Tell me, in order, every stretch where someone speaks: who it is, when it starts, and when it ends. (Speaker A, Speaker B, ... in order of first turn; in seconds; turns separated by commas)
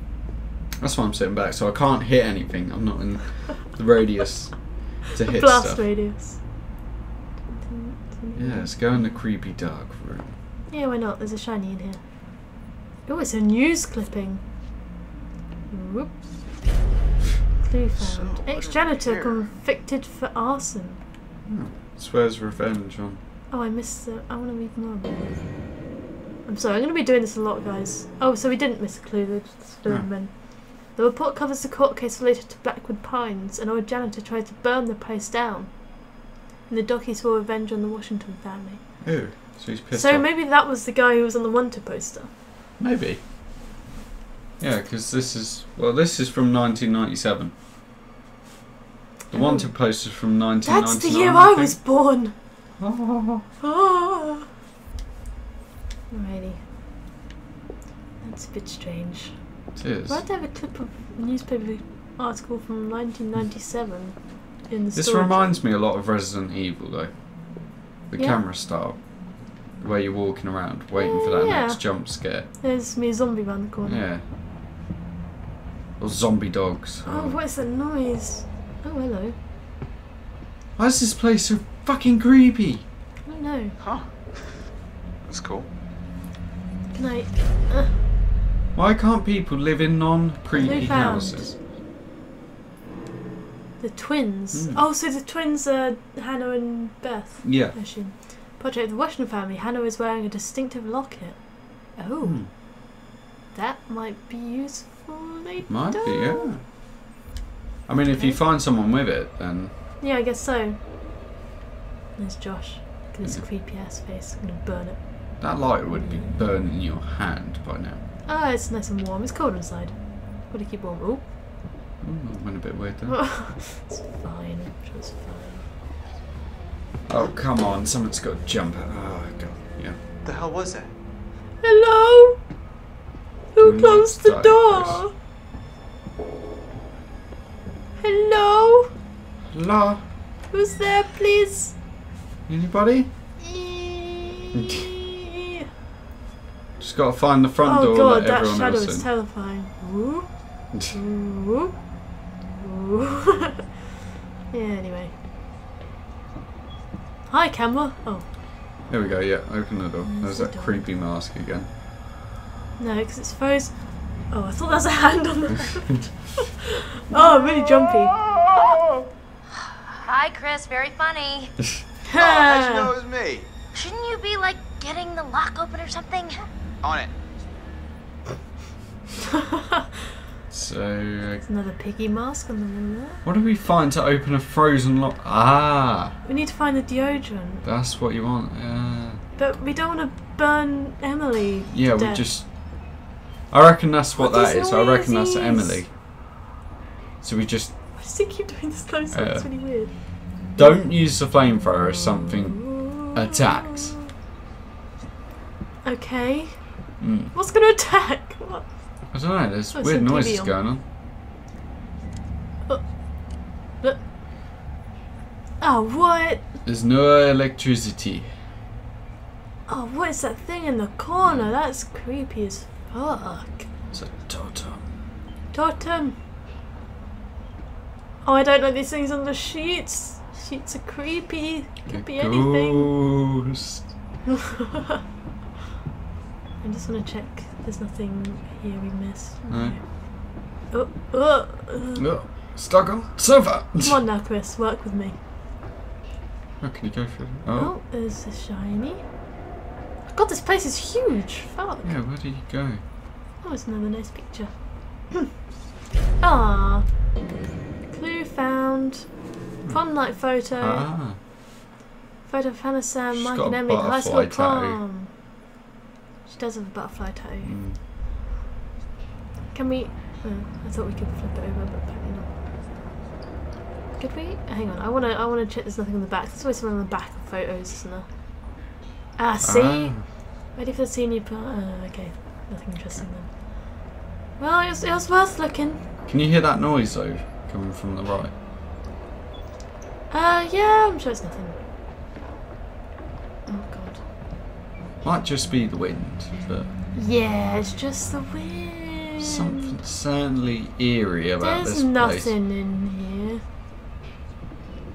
Speaker A: 0.8-5.9, Speaker B: 5.2-6.5, Speaker B: 7.5-8.7, Speaker A: 8.4-10.3, Speaker B: 10.7-12.0, Speaker B: 13.1-14.4, Speaker B: 15.7-16.3, Speaker B: 17.6-21.0, Speaker C: 17.9-19.5, Speaker A: 21.5-23.2, Speaker B: 23.5-25.3, Speaker B: 26.5-39.1, Speaker A: 39.0-40.3, Speaker B: 39.9-42.3, Speaker A: 42.8-43.2, Speaker A: 44.6-47.5, Speaker A: 49.3-51.8, Speaker B: 49.3-50.1, Speaker B: 50.6-52.4, Speaker A: 52.8-53.5, Speaker B: 53.6-54.5, Speaker B: 56.1-56.6, Speaker B: 58.2-59.4, Speaker A: 59.8-60.2, Speaker B: 60.1-65.6, Speaker A: 65.0-67.1, Speaker A: 68.1-72.5, Speaker B: 68.2-68.4, Speaker B: 70.9-74.1, Speaker A: 73.8-74.2, Speaker A: 76.0-77.4, Speaker B: 77.0-79.4, Speaker A: 80.8-82.8, Speaker B: 83.3-83.8, Speaker C: 83.8-84.7, Speaker C: 85.2-85.7, Speaker B: 86.9-88.0, Speaker A: 88.8-91.6, Speaker B: 90.5-91.5, Speaker B: 93.8-102.4, Speaker A: 94.5-94.8, Speaker A: 97.4-97.8, Speaker A: 102.2-102.5, Speaker B: 103.5-106.5, Speaker A: 105.7-106.6, Speaker A: 107.9-109.7, Speaker B: 108.1-108.4, Speaker B: 110.0-110.8, Speaker B: 112.2-115.4, Speaker A: 115.4-118.0, Speaker B: 115.9-116.3, Speaker B: 118.3-121.2, Speaker A: 122.0-123.2, Speaker B: 123.1-125.7, Speaker A: 127.1-130.0, Speaker C: 130.2-130.9, Speaker B: 131.6-132.4, Speaker B: 133.5-135.1, Speaker A: 133.6-135.0, Speaker B: 138.0-138.9, Speaker A: 139.5-140.0, Speaker B: 140.5-141.8, Speaker A: 142.5-143.1, Speaker B: 143.4-145.6, Speaker A: 144.6-144.8, Speaker A: 146.8-149.1, Speaker B: 147.6-151.8, Speaker B: 152.6-153.6, Speaker B: 154.5-155.1, Speaker B: 157.3-158.3, Speaker A: 158.9-161.7, Speaker B: 160.0-160.8, Speaker B: 162.8-168.2, Speaker C: 167.8-169.1, Speaker D: 170.0-171.5, Speaker B: 172.1-172.9, Speaker C: 172.1-173.5, Speaker D: 173.7-176.4, Speaker C: 176.8-177.1, Speaker A: 180.5-181.4, Speaker B: 181.4-183.2, Speaker A: 183.2-186.2, Speaker B: 186.2-187.6, Speaker A: 187.6-189.2, Speaker B: 189.4-192.3, Speaker A: 191.7-195.9, Speaker B: 194.2-195.8, Speaker A: 197.2-197.8, Speaker B: 198.0-200.8, Speaker A: 199.1-204.0, Speaker B: 202.2-204.0, Speaker B: 205.8-209.1, Speaker A: 207.0-207.3, Speaker A: 209.1-210.8, Speaker B: 209.7-210.6, Speaker B: 215.6-216.4, Speaker A: 216.7-218.3, Speaker B: 219.7-223.7, Speaker A: 223.9-224.8, Speaker B: 225.5-226.2, Speaker B: 228.2-232.9, Speaker A: 231.9-233.8, Speaker B: 236.6-242.1, Speaker A: 239.5-239.8, Speaker A: 242.0-244.0, Speaker B: 243.8-245.2, Speaker A: 246.6-247.7, Speaker B: 247.6-249.1, Speaker B: 250.1-251.9, Speaker A: 251.8-252.8, Speaker B: 253.4-255.3, Speaker B: 256.2-257.1, Speaker B: 257.9-259.1, Speaker A: 259.6-261.2, Speaker B: 259.7-260.9, Speaker B: 262.3-265.1, Speaker A: 263.1-264.8, Speaker B: 266.3-267.6, Speaker A: 267.4-267.8, Speaker B: 269.5-272.3, Speaker B: 274.0-278.1, Speaker B: 279.2-285.8, Speaker A: 279.4-280.1, Speaker A: 286.1-288.3, Speaker B: 290.1-291.6, Speaker B: 293.5-294.0, Speaker A: 295.0-296.7, Speaker B: 297.0-299.7, Speaker A: 299.2-302.3, Speaker B: 301.4-303.4